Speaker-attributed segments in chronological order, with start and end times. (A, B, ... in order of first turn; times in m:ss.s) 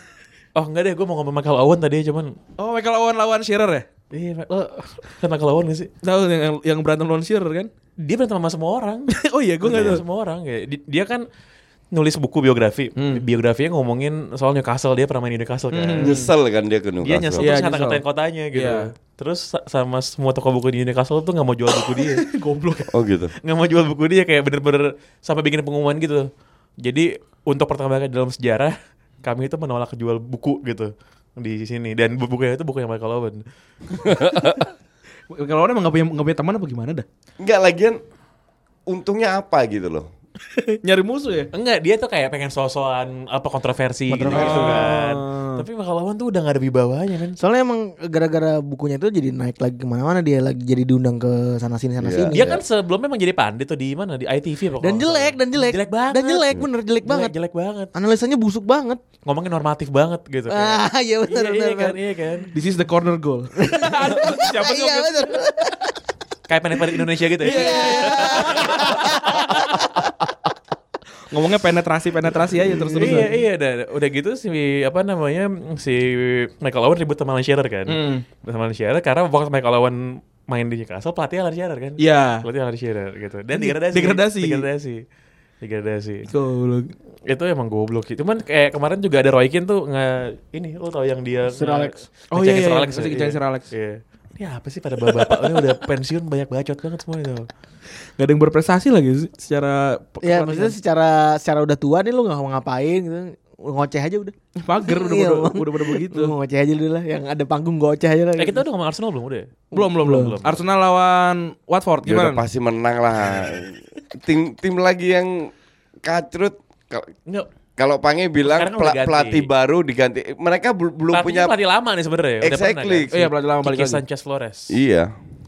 0:00.6-0:02.4 A
0:02.6-0:03.9 B
0:04.1-0:05.9 A
0:06.0-0:07.7 B
0:08.0-0:11.2 A
0:09.1-0:10.0 B
0:09.6-0:10.0 C
0:11.9-0:16.2 A
0:13.0-0:13.2 B
0:15.7-0:16.3 B
0:16.0-0:17.5 C
0:17.0-0:22.3 A
0:17.4-0:18.0 B
0:18.6-0:18.9 B
0:22.0-0:22.9 B
0:22.9-0:23.3 C
0:23.4-0:26.3 A
0:26.8-0:33.4 A
0:34.0-0:34.6 C
0:35.3-0:37.1 B
0:37.4-0:38.0 C
0:38.9-0:40.1 C
0:40.8-0:41.5 B
0:41.5-0:47.4 A
0:44.1-0:45.0 D
0:44.3-0:45.7 B
0:47.4-0:52.5 D
0:52.0-0:52.6 C
0:52.3-0:57.9 A
0:54.8-0:57.3 D
0:57.9-0:59.0 D
0:59.2-1:02.5 A
1:00.5-1:02.0 D
1:02.5-1:05.4 B
1:03.6-1:06.0 D
1:06.5-1:09.4 A
1:07.4-1:09.1 B
1:07.4-1:10.1 D
1:11.3-1:13.3 B
1:12.9-1:13.3 D
1:13.0-1:25.0 A
1:17.9-1:18.2 B
1:22.0-1:22.5 B
1:23.5-1:24.7 B
1:25.6-1:26.3 A
1:26.3-1:26.9 B
1:27.3-1:37.5 A
1:31.5-1:32.0 D
1:32.3-1:33.7 B
1:38.2-1:40.8 B
1:40.2-1:48.6 D
1:44.6-1:46.3 B
1:48.4-1:50.7 A
1:49.7-1:50.4 D
1:49.7-1:52.4 B
1:52.0-1:55.5 C
1:56.0-1:57.1 C
1:57.8-2:01.5 C
1:58.4-1:59.5 A
2:01.1-2:04.8 A
2:02.4-2:03.1 C
2:03.1-2:04.0 B
2:04.7-2:05.1 C